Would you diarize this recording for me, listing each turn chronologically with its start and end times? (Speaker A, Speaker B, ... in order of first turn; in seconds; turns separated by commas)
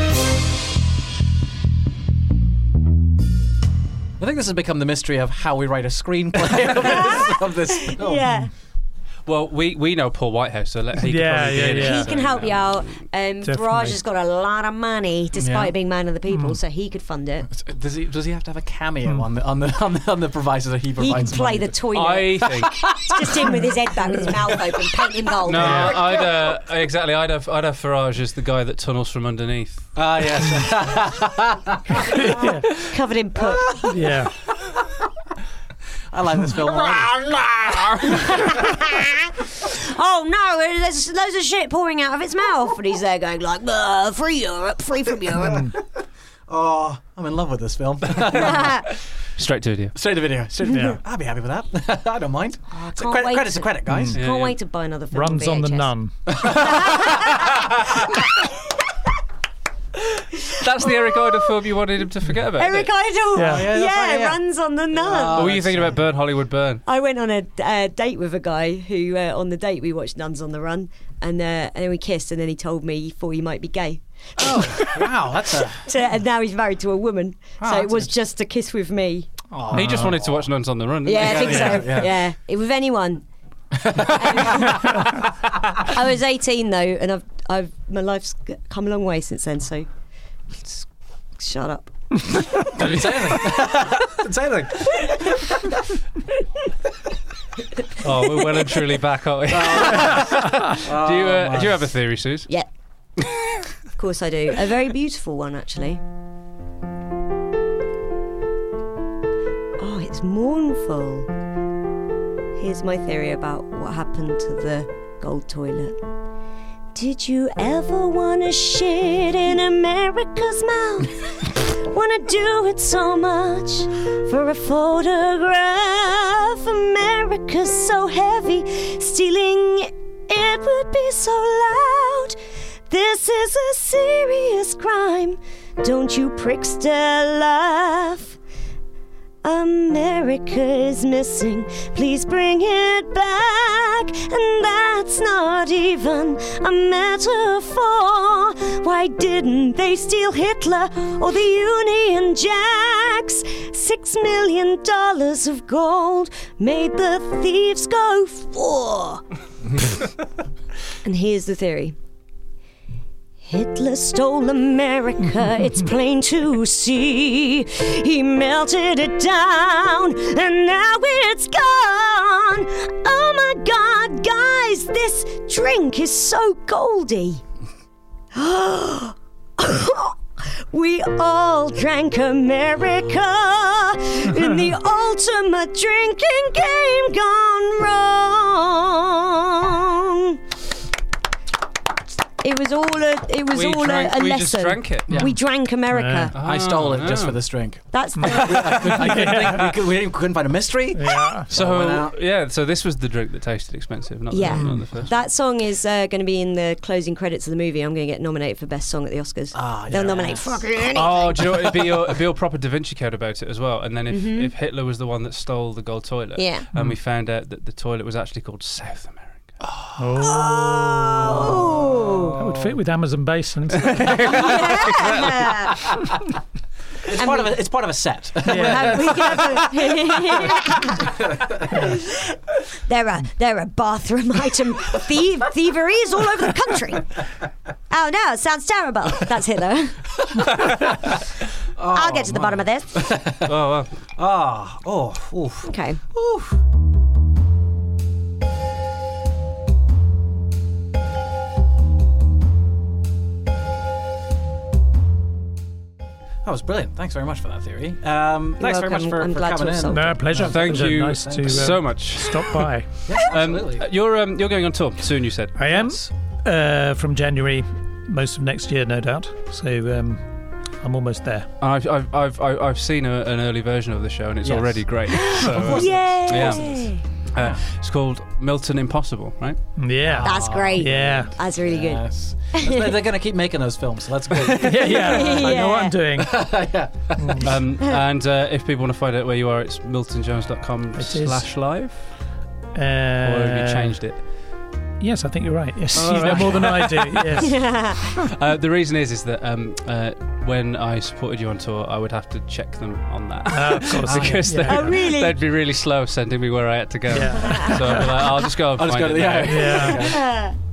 Speaker A: 4.2-8.2, Speaker B: 7.9-8.5, Speaker C: 9.2-13.0, Speaker D: 10.9-12.1, Speaker B: 11.7-17.5, Speaker D: 13.4-14.0, Speaker A: 15.3-15.7, Speaker D: 16.3-16.6, Speaker A: 17.5-21.8, Speaker B: 21.0-26.3, Speaker C: 21.9-22.8, Speaker A: 22.4-23.6, Speaker A: 24.2-24.6, Speaker C: 25.5-30.0, Speaker A: 25.6-26.2, Speaker D: 25.6-26.0, Speaker A: 29.9-32.3, Speaker D: 32.1-32.7, Speaker B: 32.4-33.8, Speaker A: 33.4-34.3, Speaker D: 33.8-34.3, Speaker A: 36.1-38.6, Speaker B: 38.0-45.6, Speaker D: 45.4-45.8, Speaker A: 46.5-48.8, Speaker B: 48.3-48.8, Speaker C: 49.4-50.0, Speaker A: 49.9-54.2, Speaker D: 50.7-51.0, Speaker B: 52.7-55.9, Speaker D: 53.9-54.2, Speaker C: 54.1-54.5, Speaker D: 55.1-56.4, Speaker A: 56.3-57.3, Speaker B: 56.5-58.5, Speaker C: 60.4-62.9, Speaker B: 60.6-61.5, Speaker B: 62.5-65.5, Speaker D: 63.3-63.7, Speaker A: 63.4-64.4, Speaker A: 64.9-66.0, Speaker C: 65.3-66.8, Speaker B: 66.8-79.3, Speaker A: 74.4-75.8, Speaker A: 77.6-78.1, Speaker A: 79.5-80.4, Speaker D: 79.7-80.1, Speaker C: 79.7-82.0, Speaker B: 81.0-83.2, Speaker A: 81.1-82.2, Speaker A: 83.7-85.1, Speaker B: 84.1-84.9, Speaker B: 85.8-89.9, Speaker B: 90.5-90.9, Speaker B: 91.4-91.9, Speaker A: 92.7-95.7, Speaker C: 98.0-102.5, Speaker B: 98.0-98.4, Speaker A: 99.5-101.8, Speaker B: 104.0-106.0, Speaker B: 109.8-111.3, Speaker B: 112.5-116.0, Speaker B: 116.9-132.4, Speaker B: 132.9-138.4, Speaker B: 139.4-159.2, Speaker B: 161.0-161.9, Speaker B: 163.4-177.4, Speaker B: 178.3-190.4, Speaker B: 192.4-196.3, Speaker C: 193.5-195.3, Speaker A: 195.1-195.3, Speaker D: 195.9-196.3, Speaker C: 196.3-197.4, Speaker A: 196.4-202.2, Speaker B: 197.9-198.9, Speaker D: 198.2-199.8, Speaker D: 200.9-201.5, Speaker C: 201.5-205.1, Speaker B: 204.3-211.4, Speaker D: 204.4-205.0, Speaker A: 209.5-212.1, Speaker C: 210.9-219.6, Speaker B: 214.1-214.5, Speaker B: 216.3-216.7, Speaker A: 219.6-222.8, Speaker D: 220.0-220.9, Speaker B: 220.2-222.4, Speaker D: 222.3-224.4, Speaker C: 223.8-225.3, Speaker A: 224.1-226.2, Speaker B: 224.3-225.8, Speaker A: 227.1-232.0, Speaker B: 227.1-227.5, Speaker B: 228.4-231.2, Speaker D: 228.4-229.3, Speaker B: 231.7-232.3, Speaker B: 232.8-237.2, Speaker B: 237.9-240.1, Speaker A: 240.4-241.2, Speaker A: 241.8-243.5, Speaker B: 241.9-242.9, Speaker C: 243.4-243.9, Speaker A: 244.1-246.6, Speaker B: 245.7-246.0, Speaker A: 256.4-261.8, Speaker B: 258.6-260.2, Speaker D: 259.9-263.0, Speaker C: 260.4-265.6, Speaker A: 263.1-263.9, Speaker D: 265.5-271.5, Speaker A: 265.6-266.1, Speaker C: 271.6-279.6, Speaker A: 274.4-276.8, Speaker B: 275.1-277.0, Speaker D: 279.8-281.4, Speaker A: 280.0-285.5, Speaker B: 280.2-283.0, Speaker D: 284.5-287.5, Speaker B: 284.8-286.0, Speaker A: 286.1-287.5, Speaker C: 287.4-292.1, Speaker D: 290.9-291.5, Speaker D: 292.7-294.0, Speaker C: 293.2-294.2, Speaker D: 295.0-298.0, Speaker C: 295.9-297.6, Speaker B: 297.4-298.0, Speaker C: 298.1-310.0, Speaker D: 303.5-305.0, Speaker A: 304.0-304.6, Speaker B: 304.6-305.4, Speaker D: 307.1-308.2, Speaker B: 307.4-308.1, Speaker A: 308.7-310.3, Speaker D: 309.4-310.1, Speaker B: 309.7-310.6